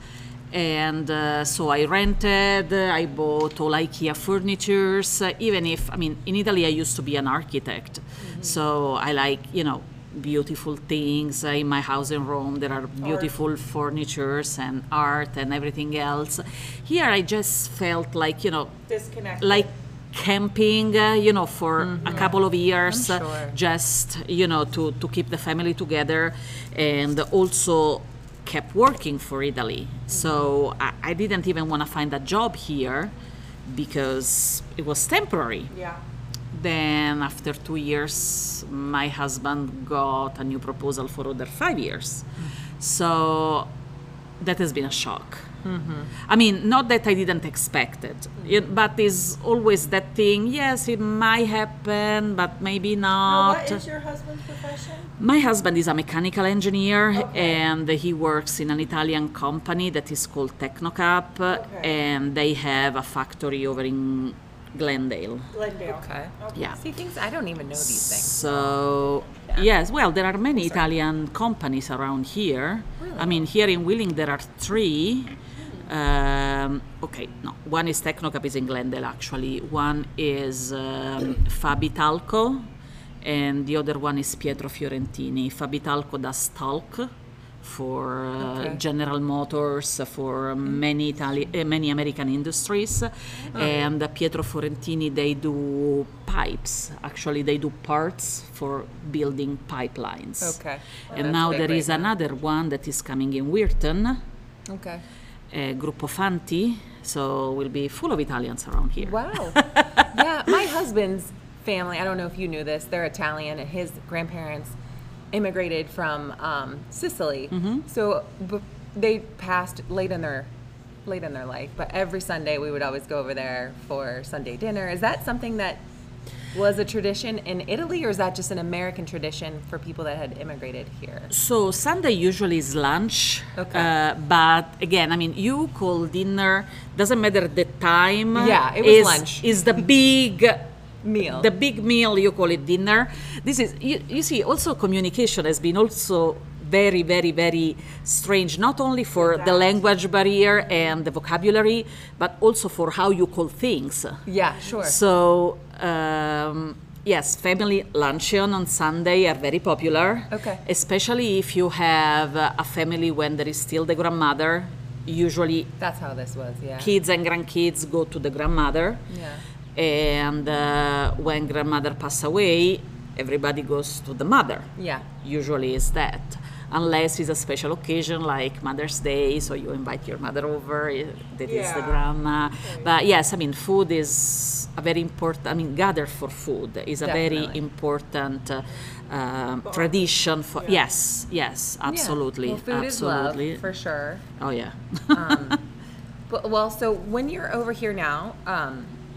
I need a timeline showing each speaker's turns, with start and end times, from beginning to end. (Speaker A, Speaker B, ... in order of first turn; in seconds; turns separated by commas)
Speaker A: 0.5-18.8, Speaker B: 8.3-8.6, Speaker B: 13.0-13.3, Speaker B: 18.9-19.7, Speaker A: 19.4-33.1, Speaker C: 21.8-23.6, Speaker C: 30.1-30.5, Speaker A: 33.6-35.7, Speaker B: 35.7-36.0, Speaker A: 36.5-43.7, Speaker A: 44.4-45.5, Speaker C: 45.6-46.1, Speaker A: 46.2-53.8, Speaker B: 53.2-55.1, Speaker A: 55.2-65.5, Speaker B: 57.1-57.6, Speaker B: 61.5-61.9, Speaker B: 65.5-66.8, Speaker C: 65.8-69.7, Speaker A: 67.8-82.7, Speaker C: 70.5-70.8, Speaker C: 73.0-73.4, Speaker A: 83.2-104.2, Speaker C: 88.4-88.8, Speaker C: 93.5-93.9, Speaker C: 100.4-102.1, Speaker C: 104.7-105.0, Speaker A: 105.5-110.1, Speaker C: 109.0-114.7, Speaker C: 115.3-120.5, Speaker A: 117.5-117.8, Speaker C: 121.0-125.8, Speaker C: 126.5-131.3, Speaker A: 131.3-140.7, Speaker C: 133.6-133.9, Speaker C: 138.3-139.5, Speaker C: 141.0-141.5, Speaker A: 141.2-165.7, Speaker B: 149.4-149.6, Speaker C: 154.3-155.0, Speaker C: 160.3-160.6, Speaker C: 165.8-166.9, Speaker A: 166.8-169.1, Speaker C: 169.1-169.4, Speaker A: 169.7-193.6, Speaker C: 174.8-175.0, Speaker B: 181.4-182.0, Speaker B: 182.6-182.9, Speaker C: 187.0-187.6, Speaker B: 189.6-190.8, Speaker C: 191.8-194.2, Speaker A: 194.4-195.6, Speaker C: 195.1-195.6, Speaker C: 196.3-198.9